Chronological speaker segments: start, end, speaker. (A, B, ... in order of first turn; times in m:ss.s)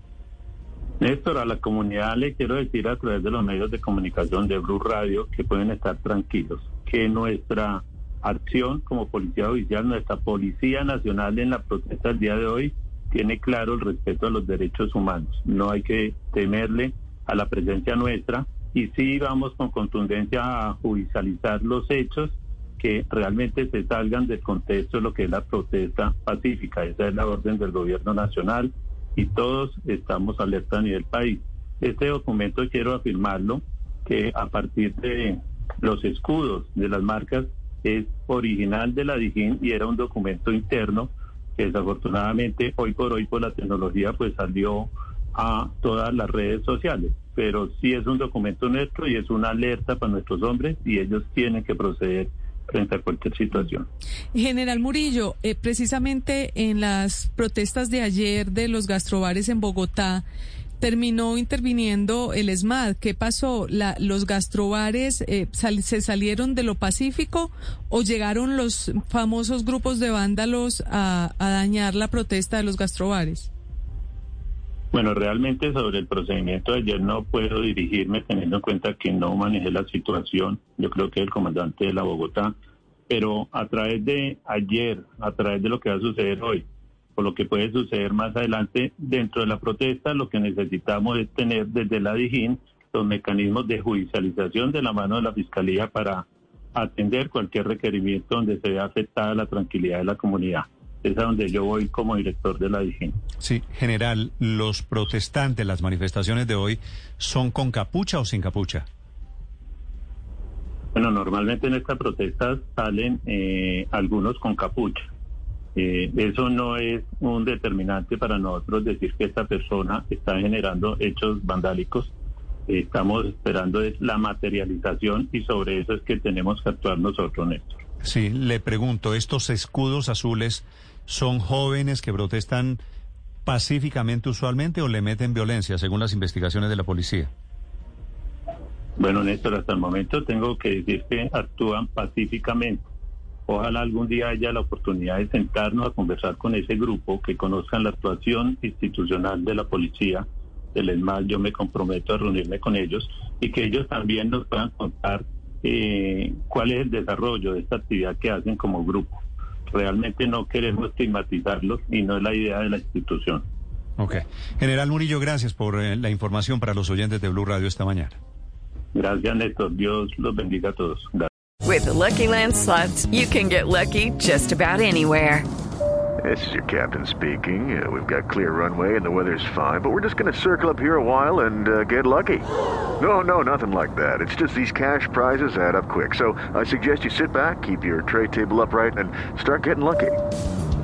0:01.0-0:53.9 A
0:54.3-1:00.2 B
1:00.8-1:13.5 B
1:14.9-1:22.5 A
1:23.1-1:26.6 A
1:27.2-1:43.2 A
1:43.4-1:48.9 C
1:50.9-1:55.1 A
1:55.8-2:02.1 A
2:02.7-2:07.8 A
2:08.0-2:12.8 C
2:13.5-2:17.3 C
2:19.0-2:22.8 A
2:23.5-2:43.4 A
2:44.0-2:48.2 C
2:48.9-2:51.3 A
2:51.6-2:55.5 D
2:56.2-3:10.2 E